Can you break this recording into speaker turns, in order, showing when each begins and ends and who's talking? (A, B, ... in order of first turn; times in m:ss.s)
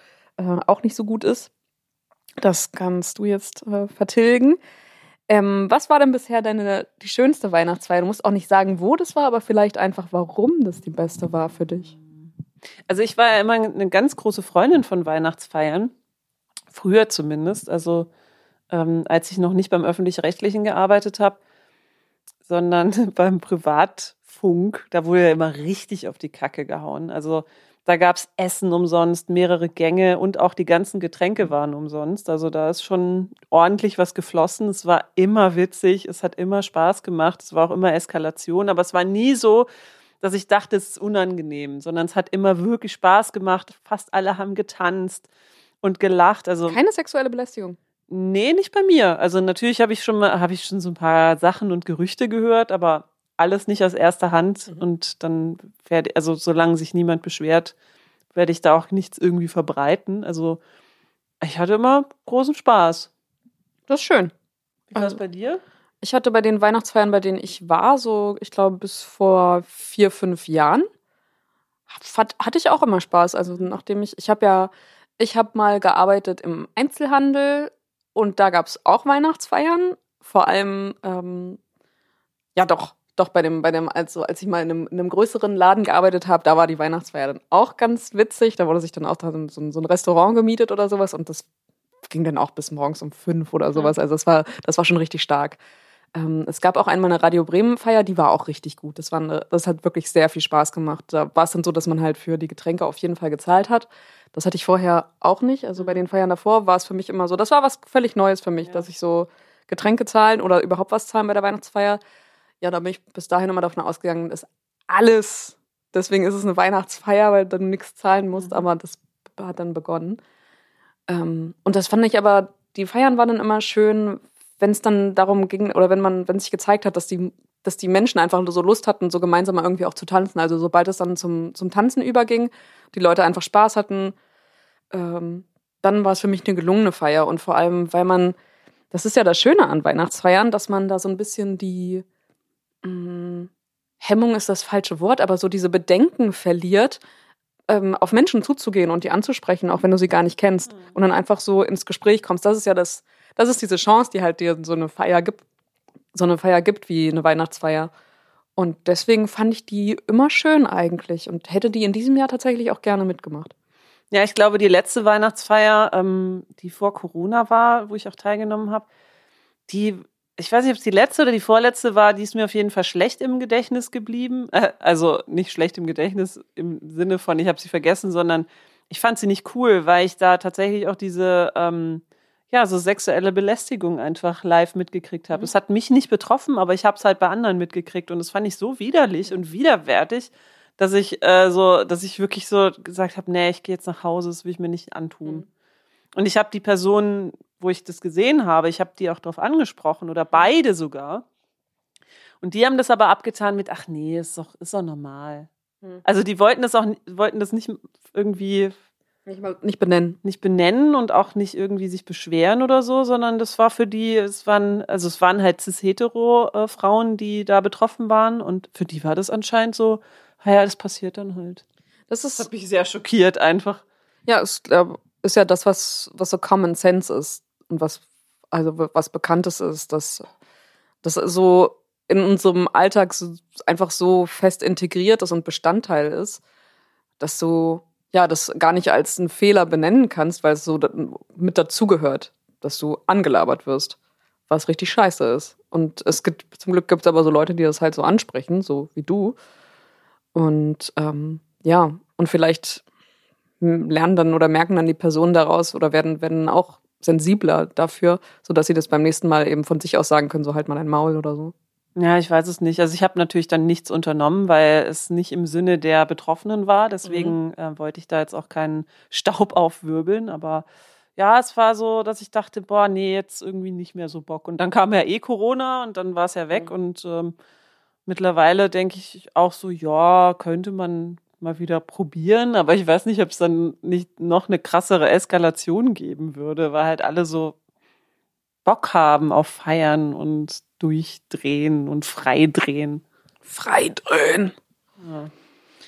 0:00.4-0:01.5 A
0:02.4-0:04.6 A
0:05.3-0:11.9 A
0:12.9-0:15.9 B
0:16.7-0:18.1 B
0:18.7-0:21.4 B
0:22.4-0:39.7 B
0:40.2-0:45.3 B
0:45.8-0:46.8 B
0:46.7-0:47.8 A
0:48.1-0:57.7 B
0:58.3-1:00.6 B
1:01.4-1:03.1 B
1:03.9-1:04.3 A
1:04.9-1:05.6 B
1:04.9-1:05.2 A
1:06.0-1:10.9 A
1:11.9-1:21.6 A
1:22.5-1:31.5 A
1:32.0-1:35.6 A
1:36.1-1:52.0 A
1:52.6-2:00.2 A
1:58.4-1:58.6 B
2:01.1-2:14.2 A
2:14.9-2:18.4 A
2:18.9-2:22.0 A
2:22.8-2:27.0 A
2:27.7-2:35.4 A
2:36.1-2:37.9 A
2:38.6-2:43.5 A
2:44.1-2:48.9 B
2:49.7-3:15.4 B
3:16.1-3:21.2 B
3:22.4-3:25.5 B
3:26.0-3:28.7 B
3:29.2-3:30.2 A
3:30.2-3:41.6 B
3:42.1-3:42.5 A
3:42.4-3:43.8 B
3:44.2-3:50.3 A
3:51.0-3:56.4 A
3:57.2-4:04.0 A
4:04.5-4:09.4 A
4:10.3-4:12.8 A
4:13.6-4:21.5 A
4:22.0-4:30.6 B
4:27.0-4:27.4 A
4:31.2-4:37.3 B
4:38.0-4:47.6 B
4:48.6-4:53.0 B
4:53.4-4:54.5 A
4:55.0-4:55.3 B